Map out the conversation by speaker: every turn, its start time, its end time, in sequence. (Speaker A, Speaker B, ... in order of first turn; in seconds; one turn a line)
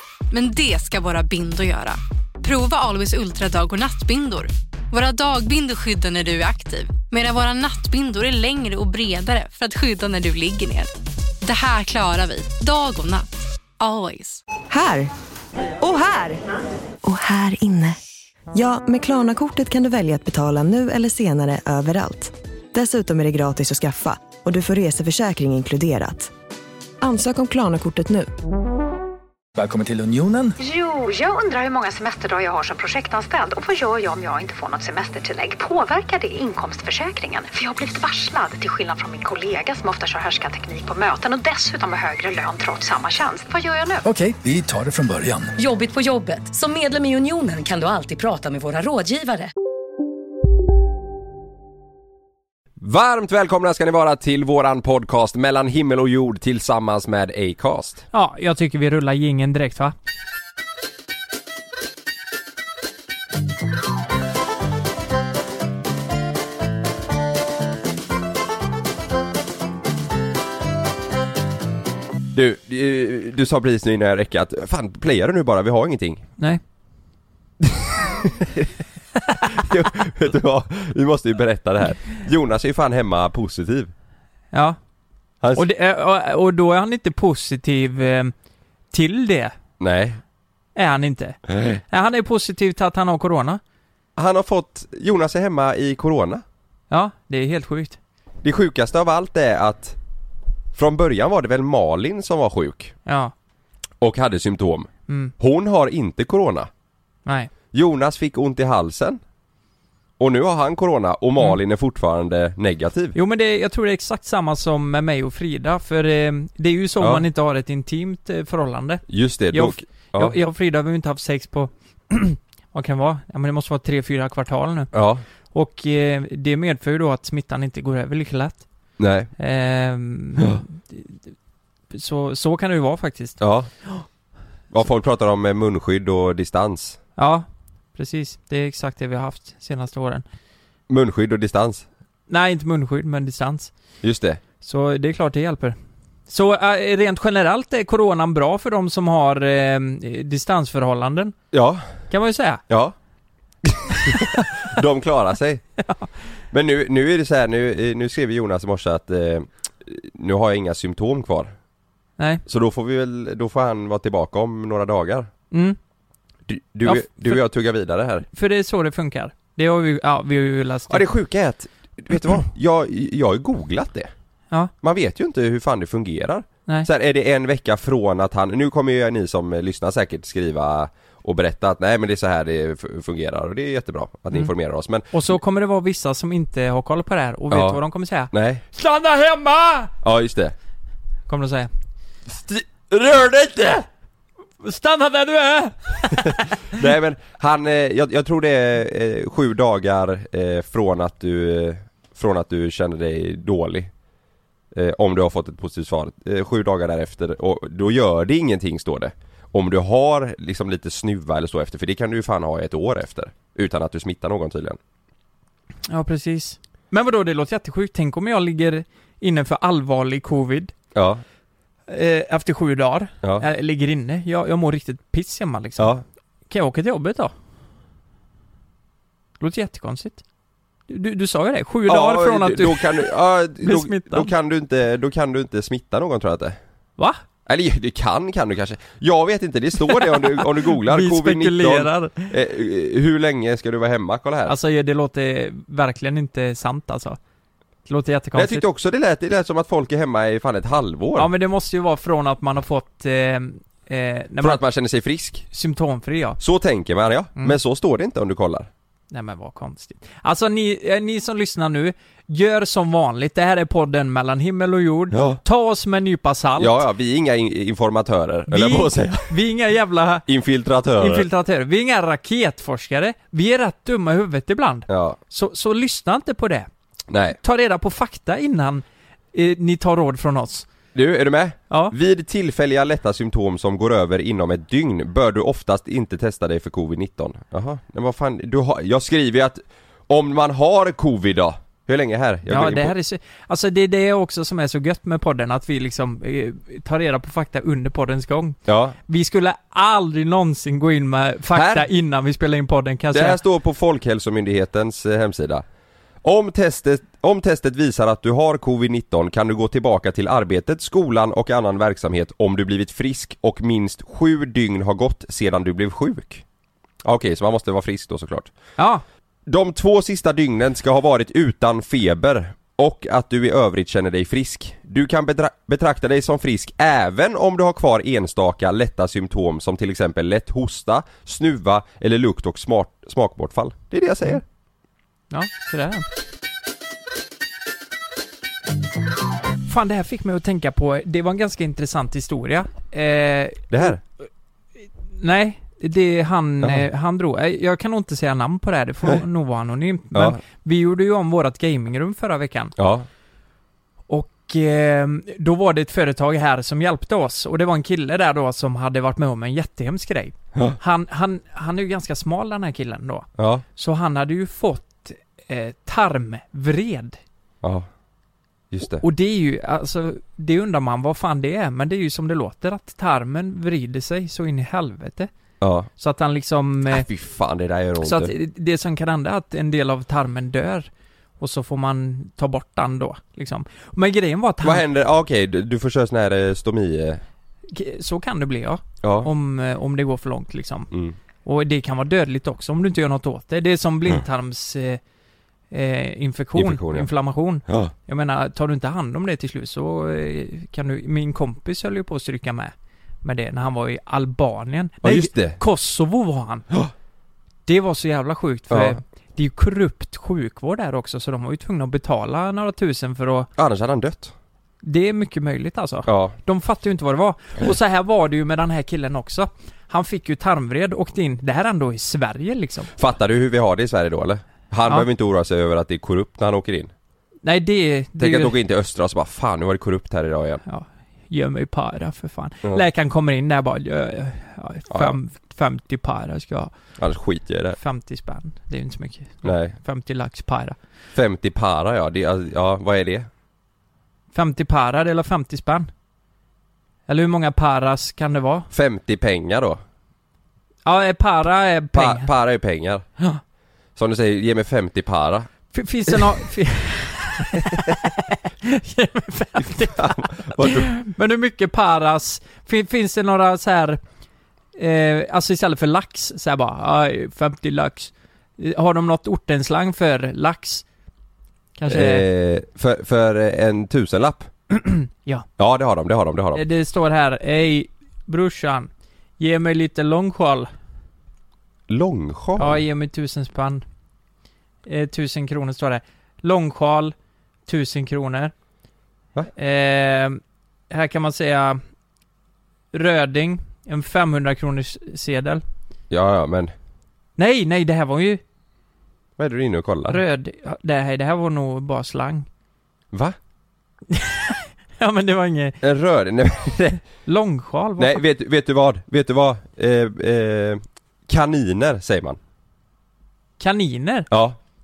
Speaker A: 0.3-10.9
Speaker A: 11.4-13.2
Speaker A: 13.8-14.4
Speaker B: 14.7-15.1
Speaker B: 15.8-16.4
Speaker B: 17.0-17.9
Speaker B: 18.5-26.3
Speaker B: 27.0-28.3
Speaker C: 29.5-30.6
Speaker D: 30.6-44.0
Speaker C: 44.0-45.5
Speaker E: 45.5-49.5
Speaker F: 52.8-58.0
Speaker G: 58.1-59.9
Speaker F: 72.3-76.2
Speaker F: 78.2-78.6
Speaker F: 79.4-83.9
Speaker G: 84.5-84.8
Speaker G: 85.5-88.3
Speaker G: 88.9-89.5
Speaker F: 89.8-90.2
Speaker G: 90.8-93.6
Speaker F: 91.5-91.8
Speaker F: 94.2-96.4
Speaker G: 96.9-98.0
Speaker F: 98.4-100.0
Speaker F: 100.7-102.9
Speaker G: 103.0-103.3
Speaker F: 104.0-106.7
Speaker G: 105.1-105.3
Speaker G: 107.2-107.5
Speaker F: 107.7-109.2
Speaker F: 110.2-113.2
Speaker G: 113.1-124.9
Speaker F: 119.1-120.3
Speaker F: 124.9-125.2
Speaker G: 125.5-128.7
Speaker F: 129.0-129.3
Speaker G: 129.4-131.3
Speaker G: 131.9-134.0
Speaker F: 133.4-133.7
Speaker F: 134.7-137.0
Speaker G: 137.2-140.2
Speaker F: 140.9-141.8
Speaker G: 142.3-143.7
Speaker F: 144.0-144.4
Speaker G: 144.6-145.8
Speaker G: 146.3-151.3
Speaker F: 151.5-151.9
Speaker G: 152.1-152.6
Speaker F: 152.7-152.9
Speaker F: 153.6-155.6
Speaker G: 155.8-156.1
Speaker F: 156.5-161.5
Speaker F: 162.4-165.3
Speaker G: 165.5-165.8
Speaker F: 166.5-168.2
Speaker G: 166.8-167.4
Speaker G: 168.3-171.1
Speaker F: 170.9-174.1
Speaker F: 174.8-185.1
Speaker G: 185.1-189.9
Speaker F: 187.5-188.6
Speaker F: 190.0-190.5
Speaker G: 191.3-191.7
Speaker F: 192.3-193.9
Speaker G: 194.6-196.7
Speaker F: 196.2-203.9
Speaker F: 204.7-214.8
Speaker G: 215.9-220.7
Speaker F: 220.9-221.2
Speaker G: 221.9-226.0
Speaker F: 225.8-226.0
Speaker G: 226.5-227.3
Speaker G: 229.4-230.2
Speaker G: 230.9-234.3
Speaker F: 231.9-236.6
Speaker F: 237.4-244.6
Speaker G: 239.8-242.3
Speaker G: 244.4-247.2
Speaker G: 247.8-248.6
Speaker F: 248.3-251.3
Speaker G: 251.2-254.6
Speaker F: 254.4-255.4
Speaker G: 255.5-256.4
Speaker F: 256.4-258.7
Speaker G: 259.1-266.8
Speaker F: 265.1-265.4
Speaker F: 266.6-269.3
Speaker G: 268.5-270.2
Speaker F: 270.3-271.3
Speaker G: 271.0-276.7
Speaker F: 274.9-275.2
Speaker F: 277.1-277.4
Speaker G: 277.4-280.7
Speaker F: 280.9-292.9
Speaker G: 281.7-281.9
Speaker G: 292.5-303.4
Speaker F: 298.6-299.0
Speaker F: 301.5-301.9
Speaker F: 303.1-305.6
Speaker F: 306.2-316.4
Speaker F: 317.0-318.5
Speaker G: 318.8-319.0
Speaker F: 319.5-334.4
Speaker G: 335.3-336.1
Speaker G: 339.6-343.9
Speaker F: 343.7-344.0
Speaker G: 345.2-352.7
Speaker F: 350.1-350.4
Speaker F: 352.8-353.1
Speaker G: 354.1-367.2
Speaker F: 363.4-363.6
Speaker F: 367.6-367.9
Speaker F: 368.7-369.0
Speaker G: 369.0-375.3
Speaker F: 375.6-375.9
Speaker G: 376.0-377.1
Speaker F: 376.9-378.3
Speaker G: 378.0-380.9
Speaker G: 381.4-384.8
Speaker F: 384.6-387.2
Speaker G: 387.7-390.9
Speaker F: 389.0-389.3
Speaker F: 390.9-391.1
Speaker G: 391.4-395.0
Speaker G: 395.7-406.7
Speaker F: 396.5-397.1
Speaker F: 397.6-397.9
Speaker F: 405.0-405.6
Speaker G: 407.6-413.5
Speaker F: 408.7-409.0
Speaker F: 413.6-414.3
Speaker G: 414.8-422.9
Speaker F: 416.1-416.4
Speaker F: 423.0-426.9
Speaker G: 427.4-428.6
Speaker F: 428.2-430.6
Speaker G: 430.6-436.7
Speaker F: 434.9-435.1
Speaker F: 437.0-437.8
Speaker G: 437.8-440.8
Speaker F: 439.4-439.8
Speaker F: 441.1-443.3
Speaker G: 444.3-445.9
Speaker G: 447.1-448.7
Speaker F: 448.7-449.8
Speaker G: 450.8-452.3
Speaker F: 451.9-453.1
Speaker F: 453.9-455.5
Speaker G: 455.7-464.0
Speaker F: 457.6-457.9
Speaker F: 459.9-460.9
Speaker G: 464.8-470.8
Speaker G: 471.8-472.2
Speaker F: 471.9-474.5
Speaker G: 474.7-475.4
Speaker F: 475.6-476.6
Speaker G: 476.5-480.7
Speaker F: 481.9-482.8
Speaker G: 482.6-483.8
Speaker G: 484.9-487.1
Speaker G: 487.7-488.5
Speaker G: 489.5-490.4
Speaker G: 490.9-491.8
Speaker G: 492.9-495.6
Speaker F: 496.1-496.7
Speaker G: 497.4-498.4
Speaker F: 499.4-500.2
Speaker G: 500.1-502.5
Speaker F: 503.1-503.4
Speaker G: 504.1-505.8
Speaker F: 505.8-506.8
Speaker G: 506.8-508.2
Speaker F: 508.0-512.4
Speaker G: 513.6-514.3
Speaker F: 514.3-514.6